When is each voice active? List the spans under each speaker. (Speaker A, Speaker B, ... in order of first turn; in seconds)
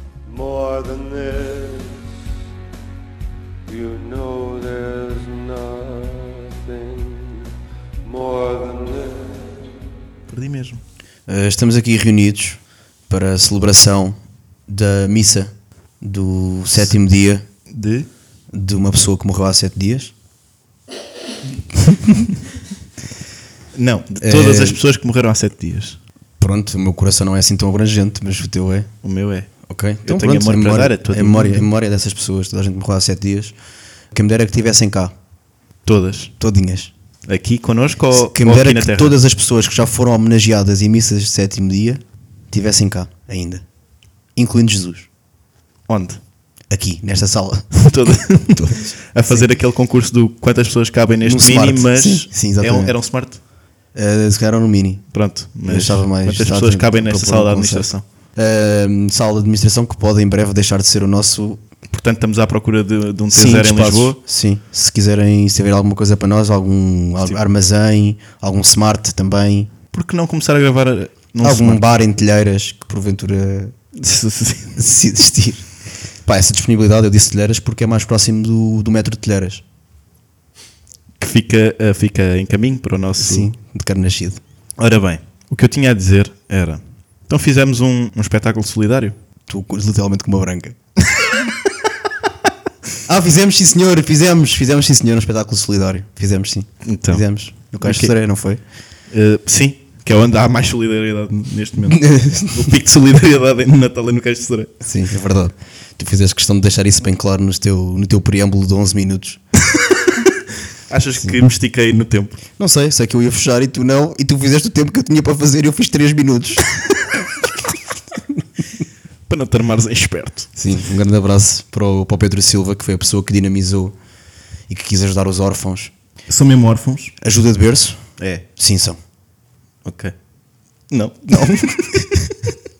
Speaker A: 0.3-2.0, 3.7-7.5, 8.0-9.7
Speaker B: 10.3-10.8, 17.7-18.1, 23.7-26.0, 29.0-29.5, 30.0-31.7, 35.9-36.3, 37.3-39.2, 45.9-46.2, 47.7-53.4, 55.1-58.0, 61.9-64.2, 69.9-71.8, 74.0-74.8, 81.2-83.5, 84.8-89.2, 96.8-97.2, 97.8-98.1, 99.1-104.7, 110.9-112.4, 119.3-120.5, 126.3-127.1, 128.2-128.4, 129.8-130.1, 130.9-132.3
Speaker C: 11.3-17.4, 18.5-20.1, 21.9-22.3, 24.2-24.8, 26.4-28.9, 29.7-33.5, 34.1-35.1, 36.4-36.9, 38.1-43.6, 44.4-45.1, 46.7-47.7, 48.5-49.5, 51.2-53.0, 53.9-55.0, 55.6-61.6, 63.3-69.7, 71.4-73.7, 74.8-75.6, 76.2-79.6, 83.2-84.4, 89.5-90.8, 93.0-98.6, 101.9-102.7, 104.8-109.4, 111.2-111.5, 112.6-117.5, 120.6-124.0, 124.7-125.9, 127.2-128.0, 128.5-129.0